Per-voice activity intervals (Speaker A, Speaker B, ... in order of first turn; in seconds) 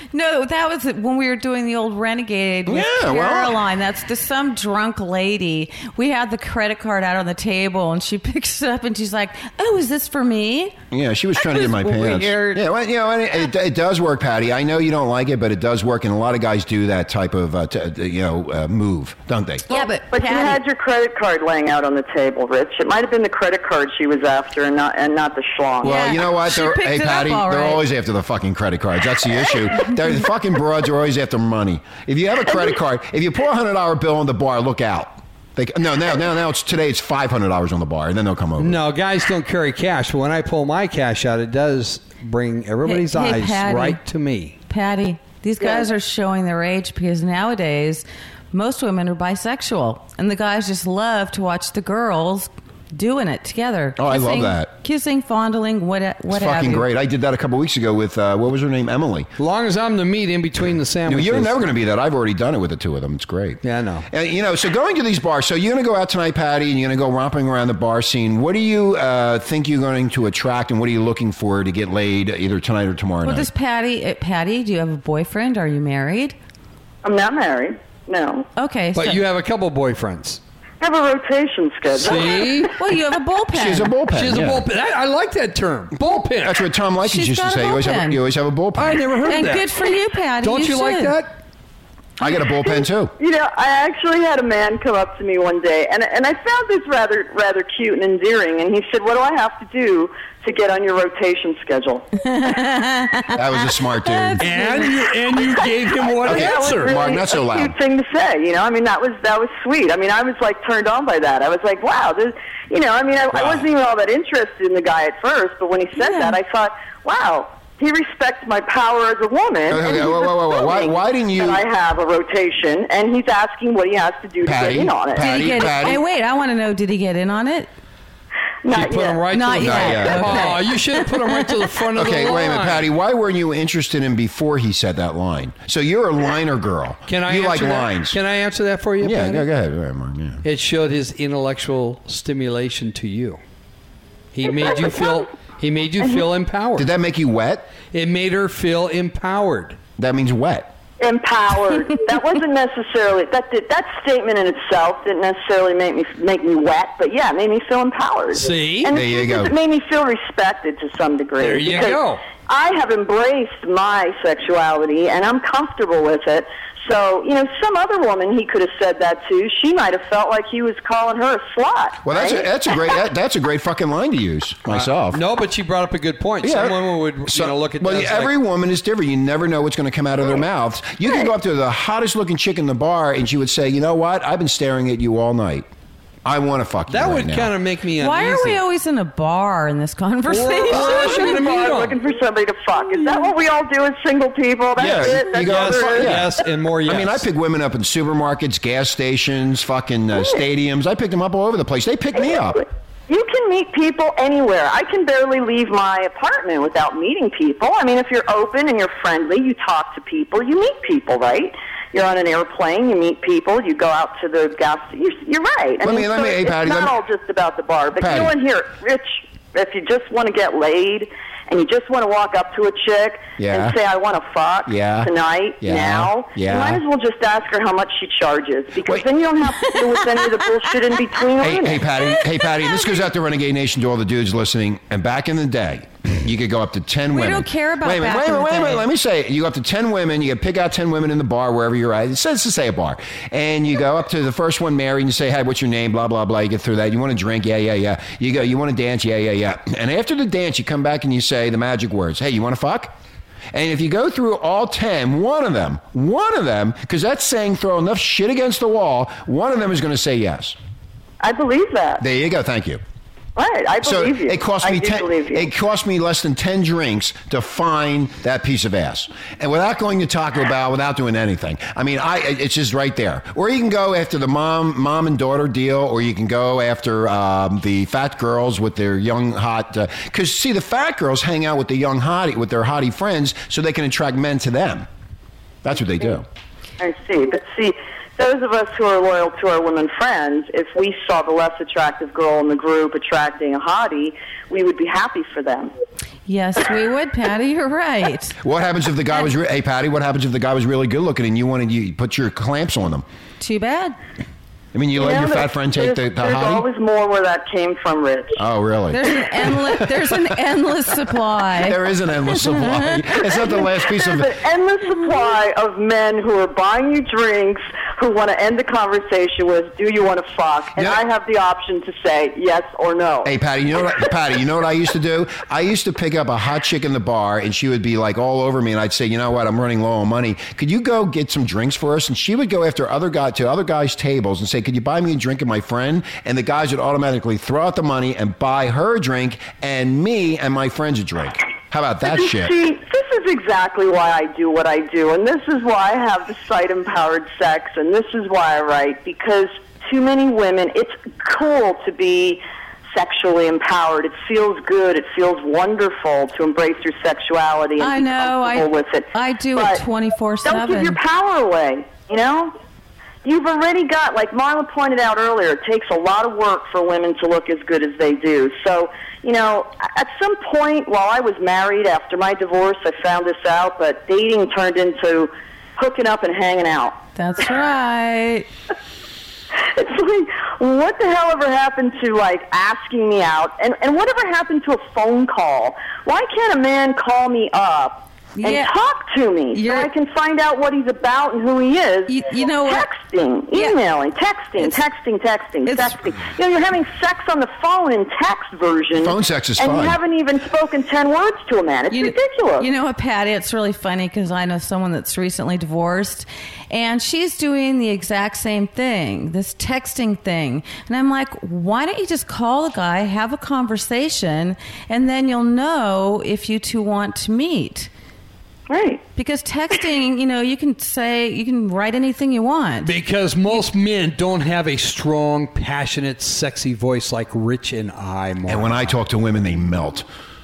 Speaker A: 0.1-10.8, 11.4-12.6, 19.7-20.6, 25.8-27.8, 42.9-44.0, 44.7-56.9, 73.2-76.4, 78.6-79.2, 82.7-84.0, 87.0-88.2, 89.3-91.2, 102.2-105.0, 116.0-116.4, 125.2-127.7, 129.3-131.5, 188.0-191.3, 229.6-230.0, 237.1-238.9, 296.3-298.4, 303.4-304.0, 308.9-311.8, 312.4-312.9, 357.8-361.0, 377.2-378.5, 388.4-388.7, 389.5-389.9, 392.1-392.9, 395.7-395.9, 401.9-417.9, 419.2-422.9
Speaker B: 2.7-3.6, 10.9-19.7, 25.8-38.8, 54.0-54.7, 56.3-59.3, 61.1-73.5, 83.5-84.7, 86.4-89.1, 92.2-93.1, 103.3-104.5, 106.2-107.8, 119.7-121.6, 124.4-126.0, 129.6-130.5, 131.9-138.2, 139.0-140.4, 146.8-147.7, 150.0-150.7, 158.9-159.5, 172.0-175.2, 176.4-185.7, 186.2-187.5, 194.8-202.7, 215.8-216.9, 218.0-218.3, 223.4-223.8, 224.7-226.8, 231.4-252.9, 253.5-260.6, 262.0-262.8, 263.8-284.9, 285.6-286.3, 298.4-303.1, 304.7-306.6, 308.4-309.1, 311.6-314.4, 320.8-321.0, 323.2-342.6, 399.0-400.0, 428.5-430.1
Speaker C: 20.1-25.9, 77.0-78.5, 80.8-82.7, 92.7-102.1, 105.4-126.0, 128.6-129.2, 151.0-172.5, 181.1-181.3, 190.7-196.2, 203.1-231.8, 261.2-262.0, 263.4-265.5, 286.8-295.7, 305.0-308.4, 313.6-323.3, 342.1-352.4, 352.9-359.8, 360.4-362.6, 363.2-377.0, 379.6-402.7, 418.7-419.0
Speaker D: 38.6-44.6, 59.4-61.6, 63.6-64.1, 79.0-80.4, 81.9-82.7, 84.1-86.6, 88.8-89.7, 90.4-91.3, 104.4-107.0, 128.7-132.9, 137.1-139.5, 140.4-143.4, 144.3-146.9, 147.9-149.8, 158.3-158.9, 161.4-162.2, 174.7-178.3, 186.9-188.6, 190.3-192.0, 194.9-197.2, 422.8-428.9